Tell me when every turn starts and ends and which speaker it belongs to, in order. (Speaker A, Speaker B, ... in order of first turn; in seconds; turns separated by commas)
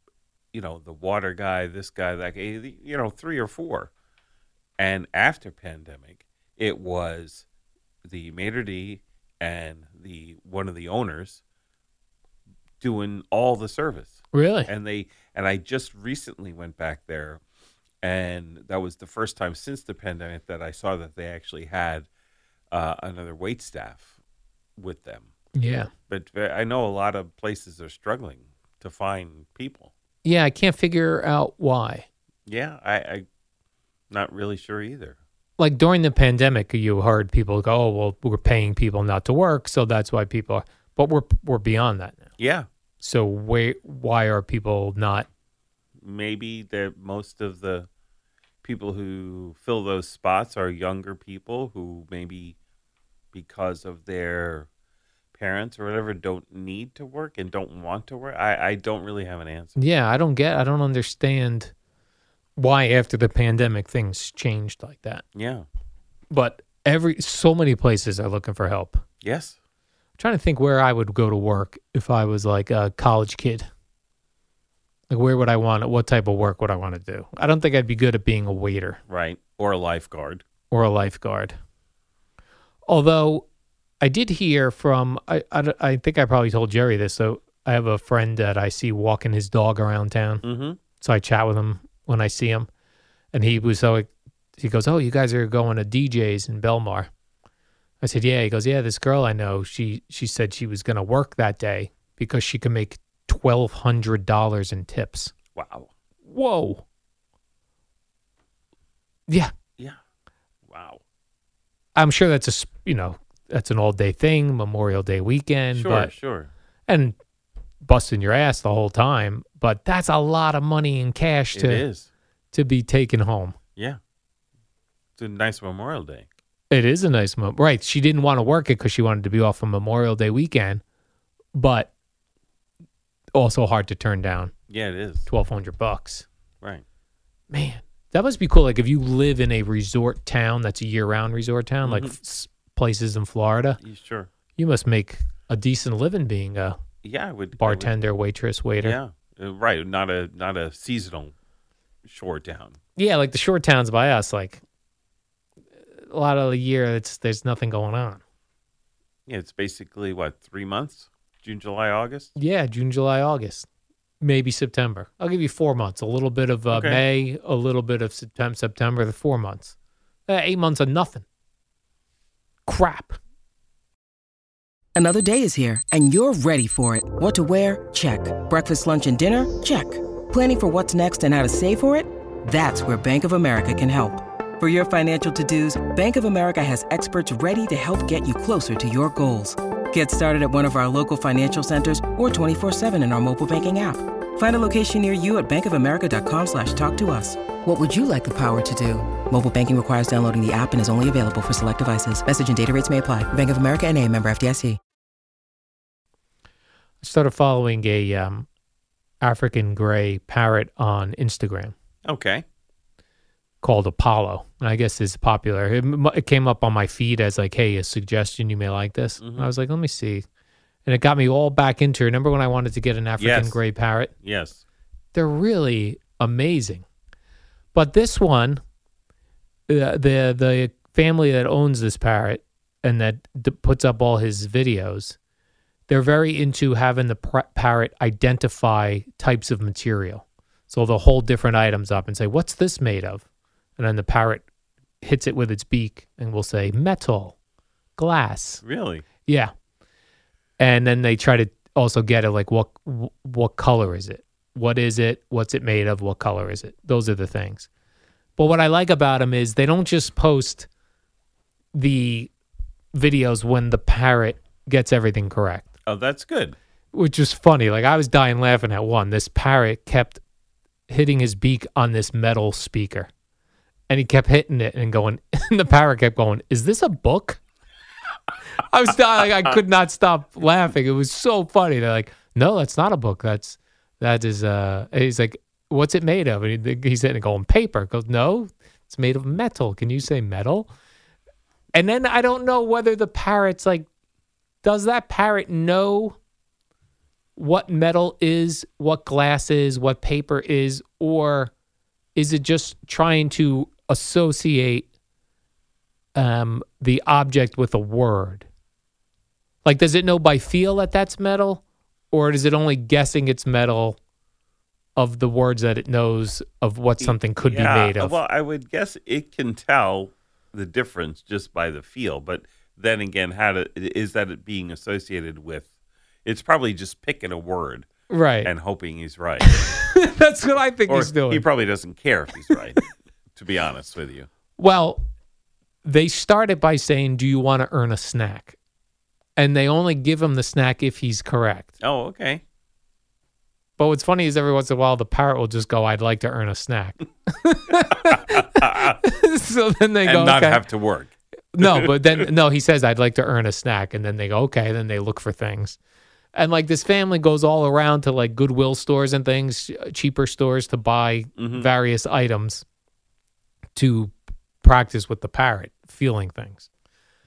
Speaker A: 0.5-3.9, Speaker A: 4.8-7.5, Speaker A: 8.1-11.4, Speaker A: 12.8-17.4, Speaker B: 14.3-14.7, Speaker A: 18.0-22.1, Speaker A: 22.7-24.2, Speaker A: 24.8-25.3, Speaker B: 25.6-25.9, Speaker A: 26.1-29.9, Speaker B: 30.2-32.1, Speaker A: 32.5-33.3, Speaker A: 34.1-35.2, Speaker B: 35.6-42.2, Speaker A: 42.4-42.7, Speaker B: 43.0-45.3, Speaker A: 46.0-47.9, Speaker A: 48.6-52.6, Speaker A: 53.3-54.7, Speaker A: 55.4-59.8, Speaker B: 59.8-61.7, Speaker B: 62.6-65.2, Speaker A: 65.3-65.7, Speaker B: 66.3-69.0, Speaker A: 69.2-69.6, Speaker B: 70.2-73.7, Speaker B: 75.1-79.0, Speaker A: 79.1-80.4, Speaker B: 80.7-81.6, Speaker B: 82.9-83.5, Speaker B: 84.0-90.4, Speaker A: 90.4-90.8, Speaker B: 91.0-92.7, Speaker B: 93.3-97.1, Speaker B: 98.0-105.3, Speaker A: 105.5-105.9, Speaker B: 106.2-106.8, Speaker A: 110.7-111.0, Speaker B: 112.0-116.1, Speaker A: 115.7-116.5, Speaker B: 116.9-117.2, Speaker B: 117.8-121.8, Speaker A: 121.5-122.1, Speaker B: 122.5-123.6, Speaker A: 125.2-126.3, Speaker B: 126.7-130.8, Speaker B: 131.5-131.9, Speaker B: 133.3-134.5, Speaker A: 134.7-135.3, Speaker B: 135.3-136.3, Speaker B: 137.5-143.8, Speaker A: 141.8-142.2, Speaker A: 143.8-144.3, Speaker B: 144.6-146.8, Speaker A: 147.0-147.9, Speaker B: 147.6-149.0, Speaker A: 148.8-151.3, Speaker A: 152.1-152.8, Speaker B: 153.0-154.6, Speaker B: 156.0-158.2, Speaker A: 159.3-162.3, Speaker B: 162.4-163.7, Speaker B: 164.2-169.8, Speaker A: 166.7-167.0, Speaker B: 170.3-171.2, Speaker B: 172.7-173.2, Speaker C: 175.0-204.8, Speaker B: 207.0-208.5, Speaker B: 209.2-211.7, Speaker A: 212.1-212.4, Speaker B: 213.6-220.2, Speaker A: 219.2-219.5, Speaker B: 220.9-224.1, Speaker A: 223.2-223.6, Speaker A: 224.2-224.6, Speaker B: 225.1-226.8, Speaker B: 227.7-228.6, Speaker B: 229.7-235.2, Speaker B: 235.9-243.2, Speaker B: 243.8-244.4, Speaker B: 245.0-247.3, Speaker B: 248.0-248.6, Speaker A: 248.6-249.1, Speaker B: 249.3-249.5, Speaker B: 250.6-257.7, Speaker B: 258.4-260.7, Speaker B: 261.7-262.3, Speaker B: 262.9-265.7, Speaker A: 265.9-266.6, Speaker B: 266.9-270.2, Speaker B: 270.9-273.1, Speaker B: 273.9-277.4, Speaker B: 278.7-290.7, Speaker B: 291.7-293.9, Speaker B: 294.6-296.2, Speaker B: 297.4-301.5, Speaker B: 302.2-304.9, Speaker B: 306.1-308.5, Speaker B: 309.6-314.0, Speaker B: 315.0-318.2, Speaker A: 317.0-325.7, Speaker A: 326.2-327.9, Speaker B: 328.1-328.5, Speaker A: 328.4-329.8, Speaker B: 329.4-331.4, Speaker A: 330.9-334.3, Speaker B: 334.6-335.1, Speaker B: 335.8-338.6, Speaker B: 339.4-341.7, Speaker A: 341.8-342.4, Speaker B: 343.8-350.6, Speaker A: 348.0-349.0, Speaker A: 350.1-352.2, Speaker B: 351.6-355.8, Speaker B: 356.3-362.6, Speaker A: 361.4-361.7, Speaker B: 363.8-366.7